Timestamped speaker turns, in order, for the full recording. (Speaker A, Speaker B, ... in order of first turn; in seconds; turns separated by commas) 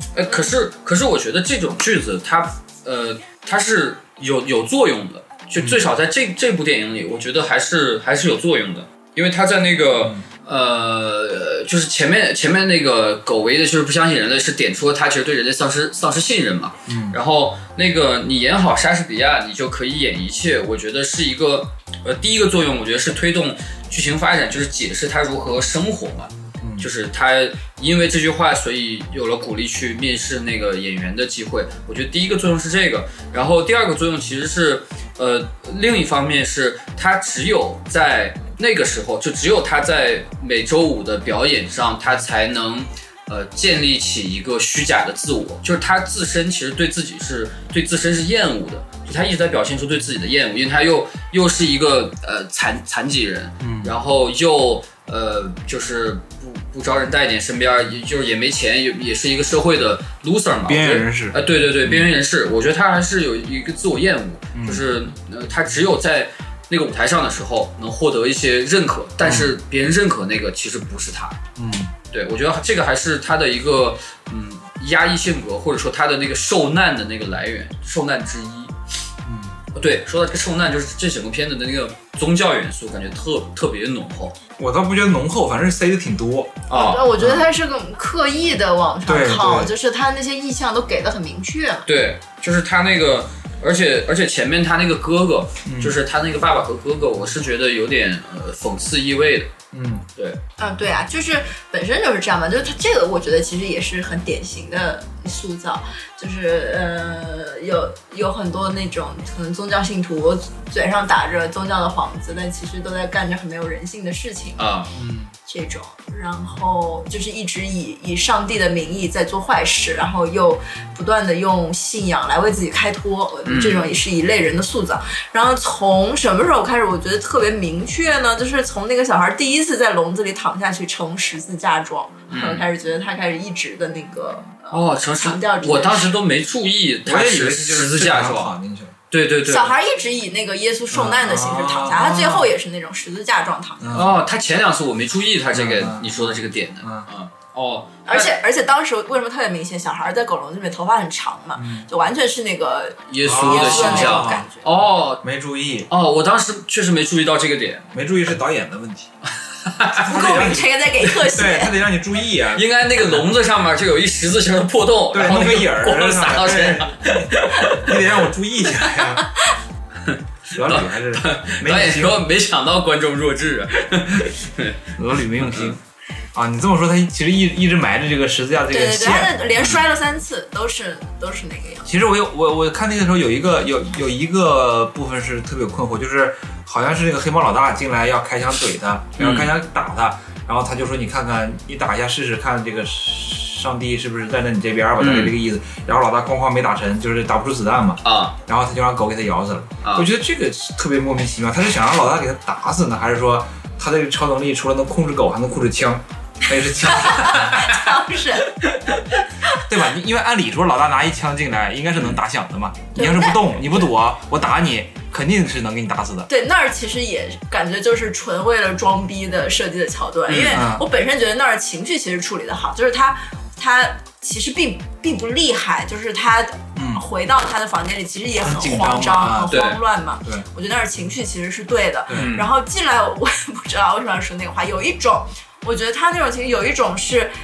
Speaker A: 0.1-71.4, Speaker B: 0.3-0.6, Speaker C: 5.6-5.8, Speaker C: 16.9-17.2, Speaker C: 26.6-26.9, Speaker C: 53.6-54.0, Speaker C: 60.7-62.1, Speaker C: 64.5-64.9, Speaker C: 69.2-69.5, Speaker C: 71.6-71.9, Speaker A: 72.1-78.7, Speaker C: 79.2-79.6, Speaker A: 79.8-84.4, Speaker C: 84.6-86.6, Speaker A: 86.7-87.1, Speaker B: 86.7-91.9, Speaker C: 87.2-87.5, Speaker C: 89.1-89.7, Speaker A: 91.9-99.5, Speaker C: 95.7-96.0, Speaker C: 99.7-100.0, Speaker B: 100.6-114.7, Speaker A: 114.6-114.9, Speaker C: 115.0-115.3, Speaker B: 115.5-136.2, Speaker A: 123.5-123.9, Speaker A: 132.3-132.7, Speaker A: 134.7-138.5, Speaker C: 137.1-139.0, Speaker A: 139.1-139.7, Speaker B: 139.5-143.9, Speaker C: 140.9-142.5, Speaker C: 143.8-144.2, Speaker A: 143.9-148.3, Speaker C: 145.5-147.1, Speaker B: 148.1-154.7, Speaker C: 151.6-151.9, Speaker A: 153.1-155.2, Speaker C: 153.2-154.5, Speaker C: 155.2-155.9, Speaker A: 155.9-157.9, Speaker C: 157.9-159.1, Speaker A: 159.6-160.2, Speaker C: 160.0-163.3, Speaker B: 160.0-161.8, Speaker A: 162.5-168.1, Speaker C: 165.1-169.3, Speaker B: 169.2-169.6, Speaker A: 170.1-175.8, Speaker C: 170.5-172.2, Speaker C: 175.0-175.8, Speaker C: 176.3-179.3, Speaker B: 178.7-181.9, Speaker C: 181.9-207.7, Speaker A: 189.2-189.5, Speaker A: 195.0-195.3, Speaker A: 198.0-198.4, Speaker A: 199.8-200.1, Speaker B: 206.8-208.6, Speaker C: 209.5-216.3, Speaker B: 212.9-213.8, Speaker B: 216.3-237.3, Speaker A: 220.3-220.7, Speaker C: 220.5-220.8, Speaker C: 226.8-227.0, Speaker C: 228.4-229.5, Speaker A: 229.5-229.8, Speaker C: 232.1-232.4, Speaker A: 232.1-232.5